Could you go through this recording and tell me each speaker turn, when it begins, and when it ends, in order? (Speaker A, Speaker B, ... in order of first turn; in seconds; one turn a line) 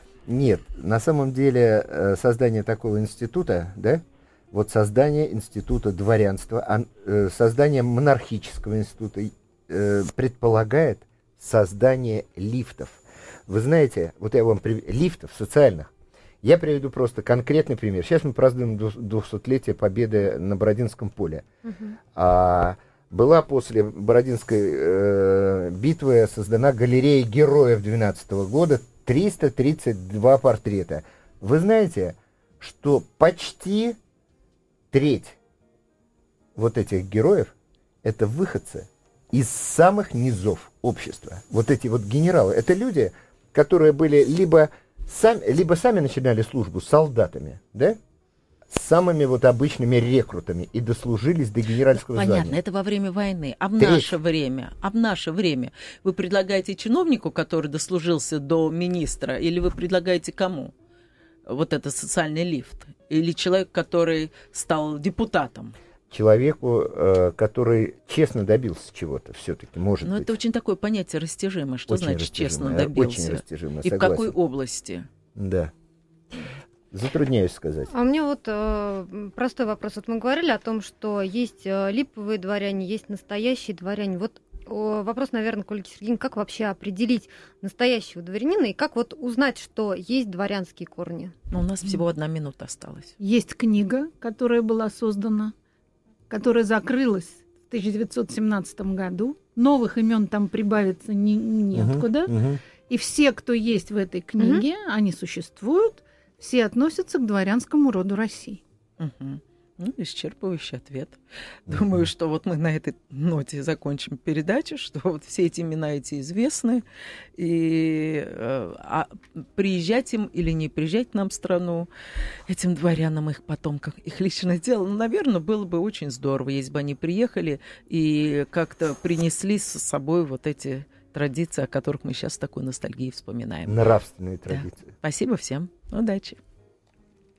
Speaker A: 0.3-15.9
Speaker A: 16.4-21.4
Speaker B: 21.6-21.9
Speaker A: 22.0-34.0
Speaker A: 34.9-35.4
Speaker A: 36.5-37.5
Speaker A: 38.0-48.0
Speaker A: 48.7-52.6
Speaker C: 51.9-60.7
Speaker A: 53.8-54.1
Speaker C: 61.5-65.7
Speaker A: 66.1-70.3
Speaker C: 70.0-75.1
Speaker A: 71.9-74.3
Speaker A: 75.3-75.7
Speaker A: 76.9-77.9
Speaker B: 77.9-91.3
Speaker C: 91.5-93.1
Speaker D: 93.2-95.5
Speaker D: 96.3-102.3
Speaker A: 101.7-102.6
Speaker D: 102.9-108.6
Speaker B: 104.4-104.7
Speaker C: 109.0-116.8
Speaker A: 111.7-112.0
Speaker C: 117.4-121.9
Speaker C: 122.5-133.8
Speaker A: 133.7-134.9
Speaker C: 134.5-136.4